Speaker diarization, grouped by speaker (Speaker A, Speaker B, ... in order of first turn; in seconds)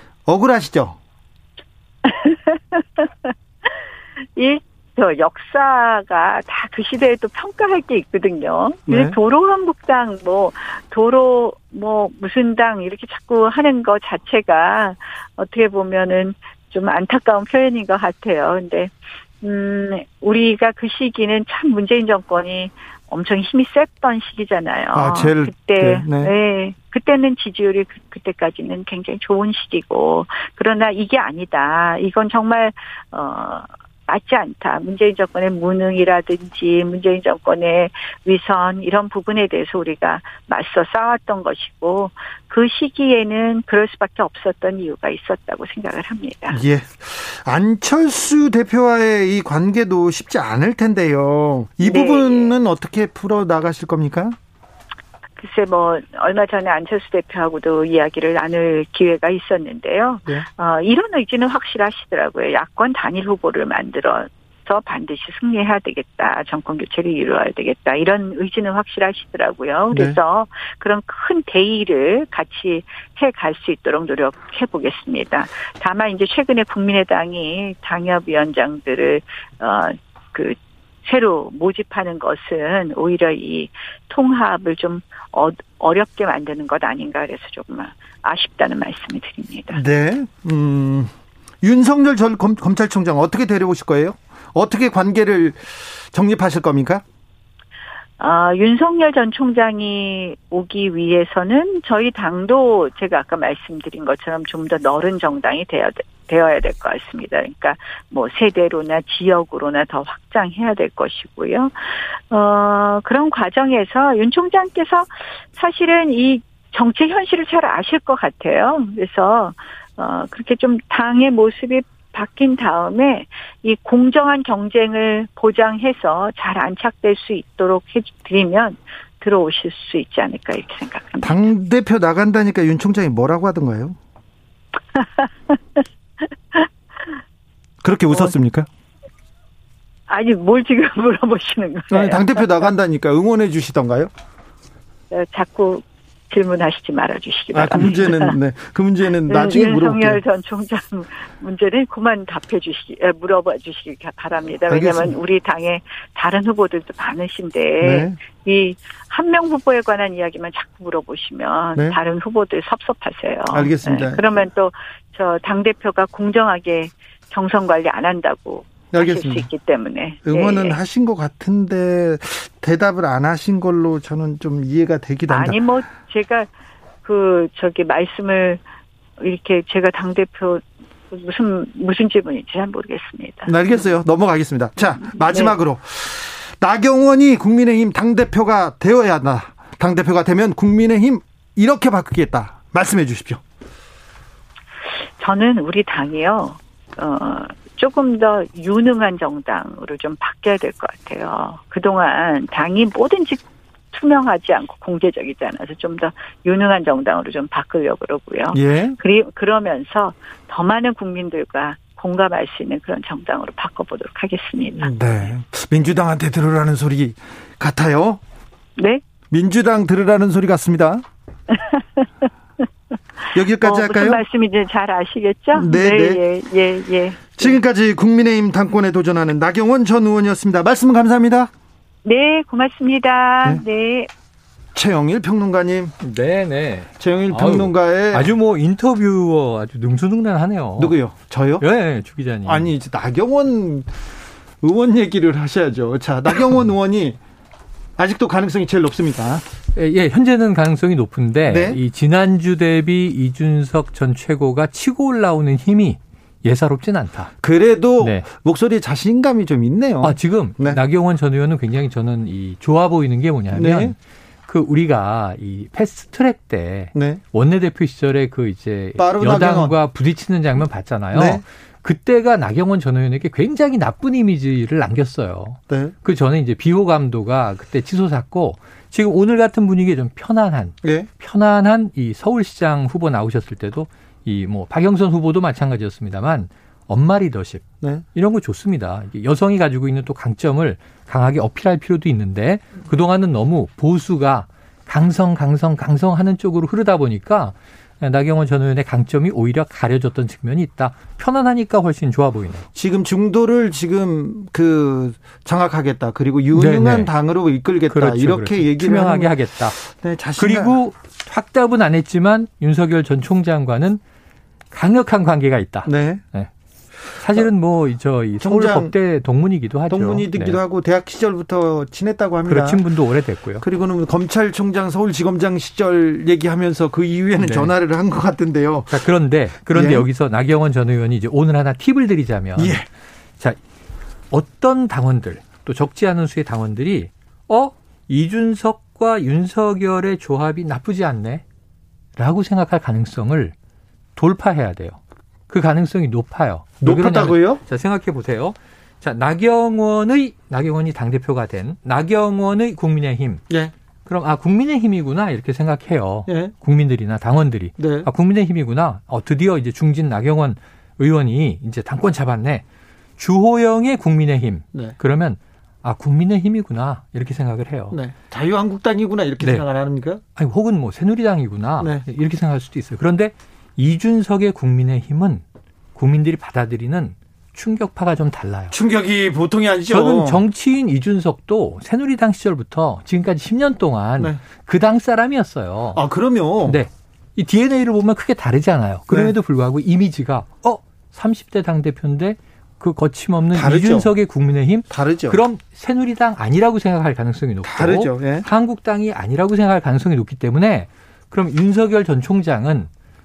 Speaker A: 0.3-1.0, 8.9-9.2, 24.9-26.3, 46.5-54.4, 69.9-70.2, 89.7-97.0, 131.2-134.0, 137.8-138.7, 141.9-144.1, 147.5-150.2, 154.7-155.2, 157.8-158.2, 163.5-164.2, 168.9-169.5, 170.3-175.6, 183.5-193.4, 208.5-209.0, 214.8-218.2, 219.3-221.1, 223.3-224.2, 225.5-226.2, 227.4-231.5, 234.8-236.0, 237.0-238.3, 240.8-241.7, 242.4-243.9, 244.6-247.2, 248.0-249.4, 251.5-251.8, 257.4-260.8, 263.5-263.9, 266.9-267.2, 269.0-269.8, 271.1-271.4, 275.7-275.9, 280.8-281.1, 302.8-310.8, 315.9-316.2, 318.4-318.9, 319.9-322.8, 323.6-329.0, 329.7-330.1, 332.6-332.9, 346.8-347.6, 356.3-356.5, 357.8-358.1, 367.9-370.2, 378.7-380.4, 385.9-386.8, 389.1-389.4, 393.5-394.1, 394.9-395.4, 397.6-398.5
Speaker B: 2.0-3.8, 4.4-46.6, 51.8-52.6, 55.4-89.8, 98.2-131.4, 134.9-135.8, 136.5-137.1, 140.1-142.7, 145.1-148.4, 149.3-170.8, 175.3-176.5, 177.0-178.6, 179.2-183.6, 185.1-185.6, 195.2-203.4, 203.9-215.3, 218.8-219.0, 221.5-222.3, 223.6-227.6, 232.1-234.1
Speaker C: 236.0-240.9, 241.6-242.7, 249.7-257.3, 258.0-258.3, 260.0-302.7, 306.5-307.1, 307.9-309.8, 310.4-314.0, 314.7-316.5, 317.1-320.6, 322.5-323.6, 327.4-327.7, 328.9-332.8, 334.3-341.4, 342.2-343.6, 344.2-353.4, 354.1-362.6, 363.2-368.0, 370.4-375.4, 375.9-378.8, 379.9-386.0, 386.6-402.9